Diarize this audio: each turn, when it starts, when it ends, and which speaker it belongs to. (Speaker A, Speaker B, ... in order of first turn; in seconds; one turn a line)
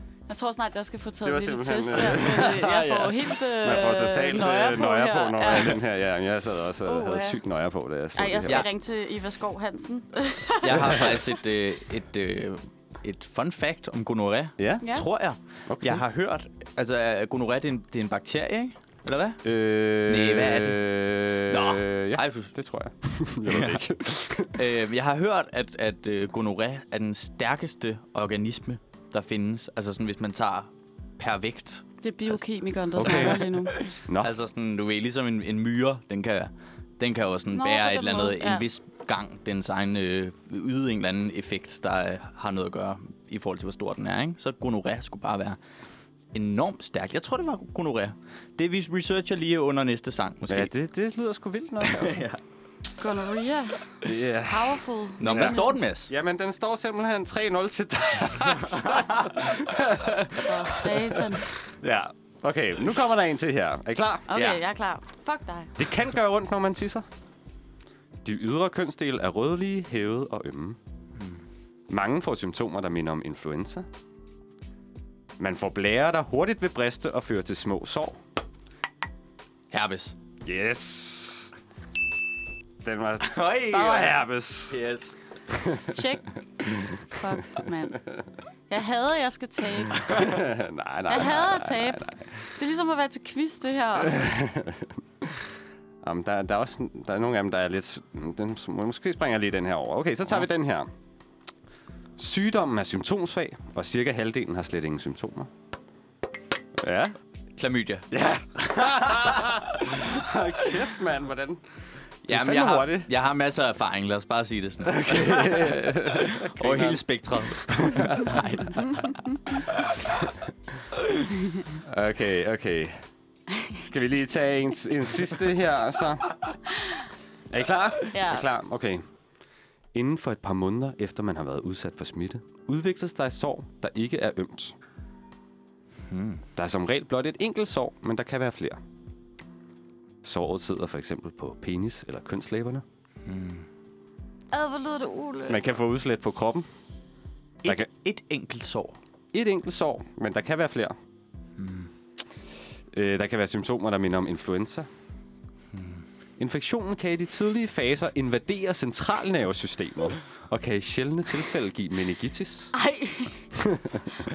Speaker A: 0.3-5.8
Speaker B: 1.2-8.7
Speaker A: 6.8-7.4
Speaker A: 8.1-11.2
Speaker C: 10.6-19.4
Speaker B: 14.6-14.8
Speaker A: 14.8-15.1
Speaker B: 15.7-16.0
Speaker B: 19.4-24.6
Speaker C: 20.1-20.8
Speaker C: 21.4-22.5
Speaker C: 23.4-32.3
Speaker A: 32.0-33.8
Speaker B: 33.0-34.3
Speaker C: 33.0-45.6
Speaker A: 37.5-38.6
Speaker C: 46.3-50.7
Speaker B: 50.5-52.3
Speaker C: 51.8-52.4
Speaker A: 53.0-55.8
Speaker B: 54.0-64.3
Speaker C: 55.2-56.1
Speaker C: 58.7-59.3
Speaker A: 60.4-61.4
Speaker A: 64.3-65.7
Speaker C: 64.3-64.6
Speaker B: 65.8-67.0
Speaker B: 68.2-70.8
Speaker B: 71.9-73.8
Speaker B: 75.4-78.2
Speaker C: 79.7-80.2
Speaker B: 80.4-81.5
Speaker B: 82.8-84.8
Speaker C: 83.2-85.2
Speaker B: 85.5-86.0
Speaker A: 85.9-86.3
Speaker A: 87.1-88.0
Speaker A: 88.7-90.2
Speaker B: 90.0-92.3
Speaker A: 91.1-92.0
Speaker A: 92.5-94.2
Speaker B: 94.0-95.3
Speaker B: 96.0-100.9
Speaker B: 102.2-105.5
Speaker B: 106.8-107.1
Speaker C: 107.6-108.1
Speaker B: 108.1-111.6
Speaker C: 112.2-119.0
Speaker B: 112.3-113.1
Speaker B: 114.8-118.4
Speaker C: 119.7-120.0
Speaker B: 120.0-120.3
Speaker B: 121.7-123.0
Speaker B: 123.8-126.5
Speaker B: 127.5-129.0
Speaker A: 128.1-128.4
Speaker B: 129.9-134.7
Speaker C: 136.1-136.4
Speaker B: 136.6-138.8
Speaker B: 140.2-142.8
Speaker C: 143.2-143.7
Speaker A: 144.5-145.7
Speaker B: 145.5-146.7
Speaker C: 147.6-149.0
Speaker B: 149.3-150.9
Speaker C: 151.6-151.9
Speaker B: 152.9-154.9
Speaker C: 155.7-156.0
Speaker B: 156.4-162.7
Speaker A: 162.7-163.4
Speaker B: 163.5-164.1